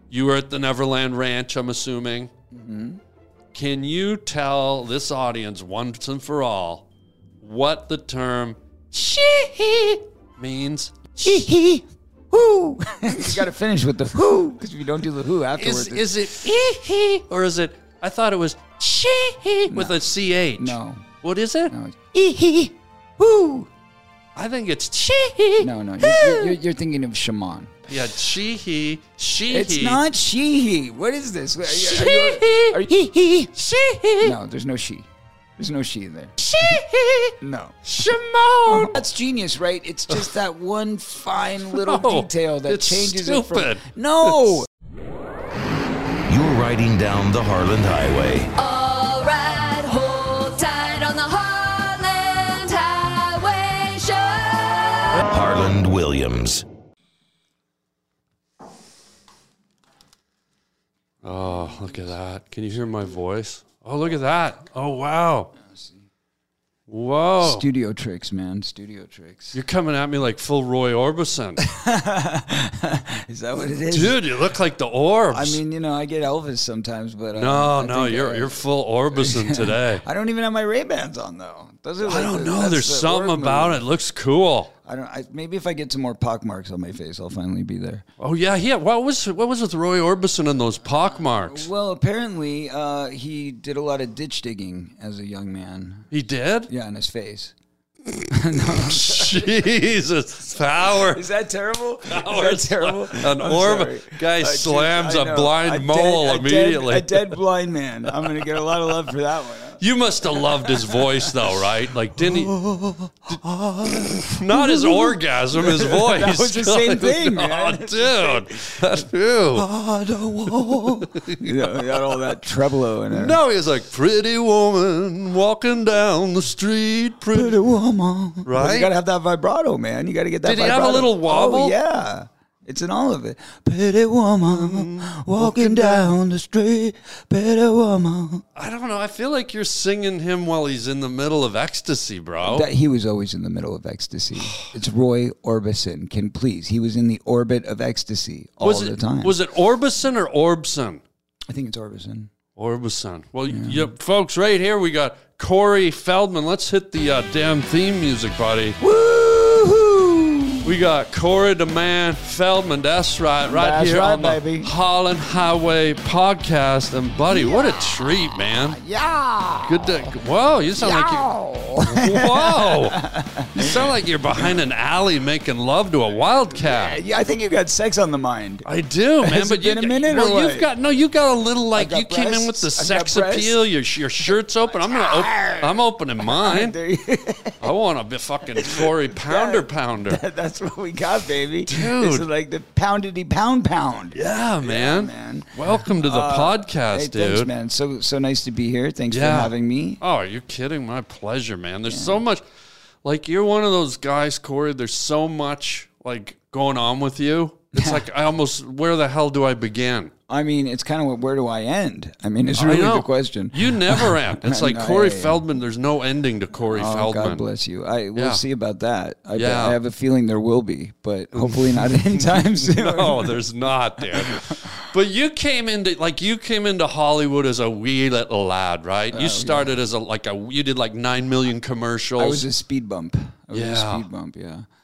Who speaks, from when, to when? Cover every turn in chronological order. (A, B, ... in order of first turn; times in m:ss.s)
0:00.1-0:02.3 A
0:02.5-0:03.0 B
0:03.5-0:06.8 A
0:07.4-0:11.2 A
0:11.2-0:16.5 B
0:15.6-0:21.7 A
0:19.7-0:20.0 B
0:20.6-0:21.1 B
0:21.7-0:23.7 B
0:24.4-0:26.6 A
0:25.6-0:27.8 B
0:27.9-0:30.0 A
0:29.5-0:33.5 B
0:31.6-0:32.8 A
0:33.5-0:34.4 A
0:34.2-0:36.8 B
0:36.4-0:39.0 A
0:37.4-0:37.8 B
0:38.7-0:44.7 B
0:41.7-0:44.5 A
0:46.3-0:48.5 C
0:48.6-0:55.2 D
0:55.2-0:56.6 C
1:01.2-1:05.5 A
1:05.6-1:06.0 B
1:06.9-1:07.6 A
1:07.4-1:09.6 B
1:09.5-1:11.6 A
1:11.6-1:14.2 B
1:13.9-1:15.6 A
1:15.3-1:23.8 B
1:17.3-1:20.0 A
1:22.0-1:24.7 A
1:24.8-1:28.0 B
1:28.2-1:31.7 A
1:31.1-1:36.1 B
1:36.1-1:36.7 A
1:36.7-1:37.5 B
1:38.3-1:39.5 B
1:38.5-1:41.2 A
1:40.8-1:51.6 B
1:42.1-1:47.4 A
1:48.1-1:48.4 A
1:49.8-1:52.6 A
1:52.1-2:03.4 B
1:53.8-1:59.6 A
2:00.5-2:02.2 A
2:03.1-2:07.6 A
2:07.3-2:18.4 B
2:08.4-2:08.9 A
2:10.4-2:11.7 A
2:14.5-2:16.1 A
2:18.5-2:22.7 A
2:22.4-2:29.4 B
2:24.4-2:24.7 A
2:28.6-2:31.0 A
2:31.5-2:32.3 B
2:32.5-2:38.8 A
2:33.5-2:33.9 B
2:38.8-2:40.7 B
2:40.6-2:48.8 A
2:43.5-2:44.7 B
2:47.3-2:50.2 B
2:49.6-2:51.3 A
2:50.8-2:54.5 B
2:51.8-2:53.0 A
2:53.5-2:57.0 A
2:56.5-2:58.6 B
2:58.6-3:06.8 A
2:59.2-3:00.7 B
3:01.8-3:03.6 B
3:04.2-3:07.7 B
3:07.6-3:10.2 A
3:08.5-3:20.0 B
3:11.7-3:12.2 A
3:14.1-3:17.5 A
3:19.1-3:22.4 A
3:21.9-3:22.2 B
3:23.0-3:30.1 A
3:27.7-3:28.0 B
3:30.3-3:35.4 B
3:32.6-3:37.4 A
3:36.7-3:43.4 B
3:38.2-3:38.4 A
3:39.3-3:39.8 A
3:41.3-3:52.4 A
3:44.0-3:44.8 B
3:49.1-3:49.8 B
3:52.2-3:54.7 B
3:53.5-3:54.0 A